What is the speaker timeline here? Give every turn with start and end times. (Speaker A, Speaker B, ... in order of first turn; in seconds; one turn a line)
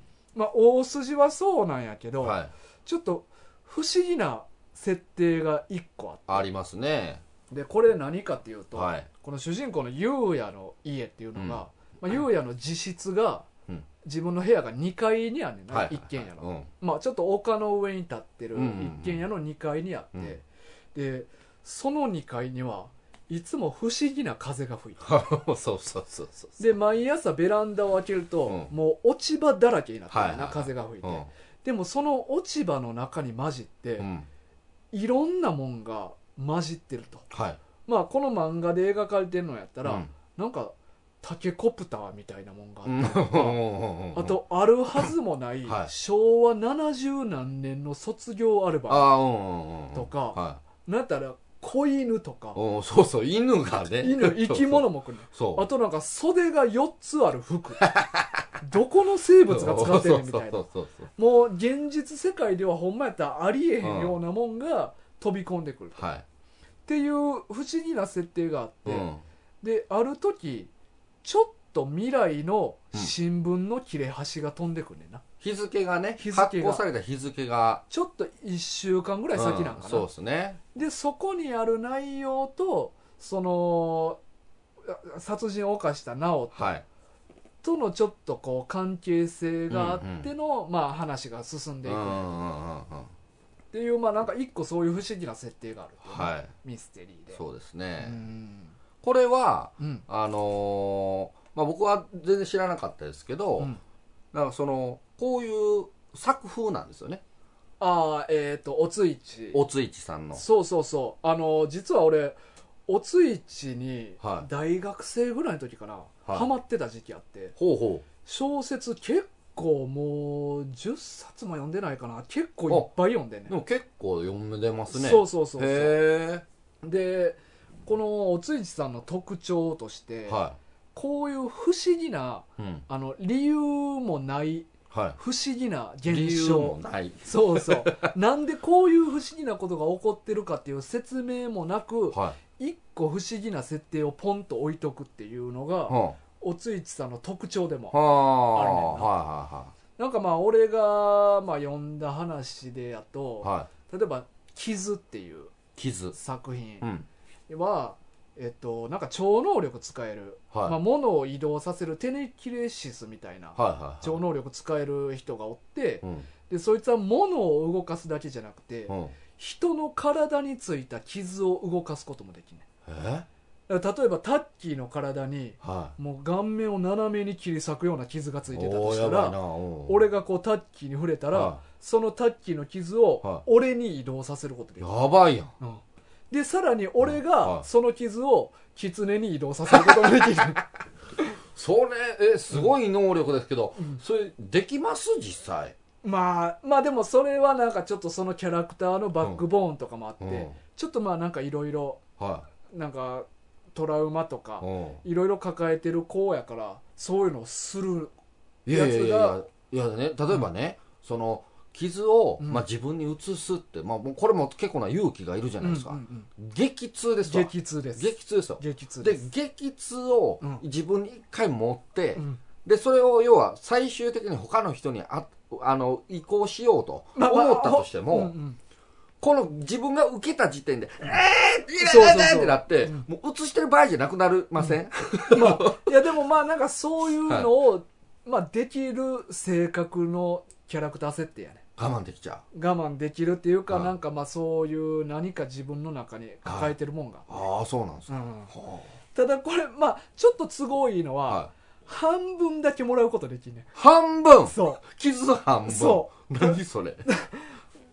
Speaker A: 0.3-6.4
Speaker B: 2.2-2.5
Speaker B: 6.3-7.2
Speaker A: 7.5-13.5
Speaker B: 8.8-9.1
Speaker B: 11.3-11.6
Speaker A: 14.0-20.4
Speaker B: 15.7-16.7
Speaker B: 18.5-19.2
Speaker A: 20.9-25.1
Speaker B: 25.0-26.6
Speaker A: 26.6-34.1
Speaker B: 30.1-31.3
Speaker B: 34.0-34.3
Speaker A: 34.9-37.2
Speaker B: 37.3-37.6
Speaker A: 37.9-43.6
Speaker B: 39.9-40.1
Speaker B: 42.9-44.4
Speaker A: 44.1-49.1
Speaker B: 45.7-45.9
Speaker B: 48.9-50.6
Speaker A: 49.9-52.6
Speaker B: 52.5-55.7
Speaker A: 54.0-57.9
Speaker B: 57.8-58.5
Speaker A: 58.6-60.6
Speaker B: 59.5-61.1
Speaker A: 61.2-66.0
Speaker B: 63.8-64.2
Speaker B: 66.0-66.2
Speaker A: 66.9-69.1
Speaker B: 68.8-69.2
Speaker A: 69.6-70.7
Speaker A: 71.2-75.2
Speaker B: 75.4-77.8
Speaker A: 76.2-76.8
Speaker A: 77.9-80.1
Speaker B: 79.3-80.6
Speaker A: 80.7-84.2
Speaker A: 84.8-86.7
Speaker B: 86.5-86.8
Speaker A: 87.6-92.3
Speaker B: 89.7-90.3
Speaker B: 91.8-93.1
Speaker A: 93.7-97.4
Speaker B: 96.0-96.5
Speaker B: 97.3-98.2
Speaker A: 98.0-98.7
Speaker B: 99.0-103.7
Speaker A: 99.8-100.0
Speaker B: 104.3-107.2
Speaker A: 107.8-109.6
Speaker B: 109.5-110.4
Speaker A: 110.3-117.5
Speaker B: 114.2-114.5
Speaker B: 117.6-118.0
Speaker A: 118.2-123.5
Speaker B: 123.5-126.5
Speaker A: 124.9-126.0
Speaker A: 126.8-130.4
Speaker B: 130.3-130.6
Speaker A: 130.9-148.0
Speaker B: 132.6-132.8
Speaker B: 134.9-135.2
Speaker B: 136.1-138.1
Speaker B: 142.1-142.4
Speaker B: 145.9-146.2
Speaker B: 147.9-149.7
Speaker A: 148.5-149.1
Speaker A: 150.0-155.5
Speaker B: 153.4-153.7
Speaker B: 155.8-156.2
Speaker A: 156.1-156.9
Speaker B: 156.8-157.1
Speaker A: 157.5-172.7
Speaker B: 160.5-160.8
Speaker B: 163.6-164.2
Speaker B: 168.9-169.2
Speaker B: 172.9-173.3
Speaker A: 173.7-184.9
Speaker B: 175.6-175.9
Speaker B: 178.5-180.0
Speaker B: 181.3-181.6
Speaker B: 184.8-185.5
Speaker A: 185.6-190.7
Speaker B: 187.0-187.7
Speaker B: 189.7-190.5
Speaker B: 191.5-195.8
Speaker A: 196.0-202.0
Speaker B: 200.2-200.6
Speaker B: 202.2-202.5
Speaker A: 202.7-208.1
Speaker B: 204.6-205.0
Speaker B: 208.7-228.3
Speaker A: 208.7-209.4
Speaker A: 212.4-212.7
Speaker A: 215.6-216.3
Speaker A: 217.3-219.2
Speaker A: 222.2-222.4
Speaker A: 227.2-228.6
Speaker B: 229.2-235.9
Speaker A: 231.8-233.1
Speaker A: 235.3-241.6
Speaker B: 237.2-237.5
Speaker B: 241.8-242.4
Speaker A: 242.5-247.3
Speaker B: 246.5-246.7
Speaker B: 247.3-248.9
Speaker A: 248.1-248.5
Speaker A: 249.2-253.7
Speaker B: 253.8-257.0
Speaker A: 254.5-254.8
Speaker A: 255.7-257.6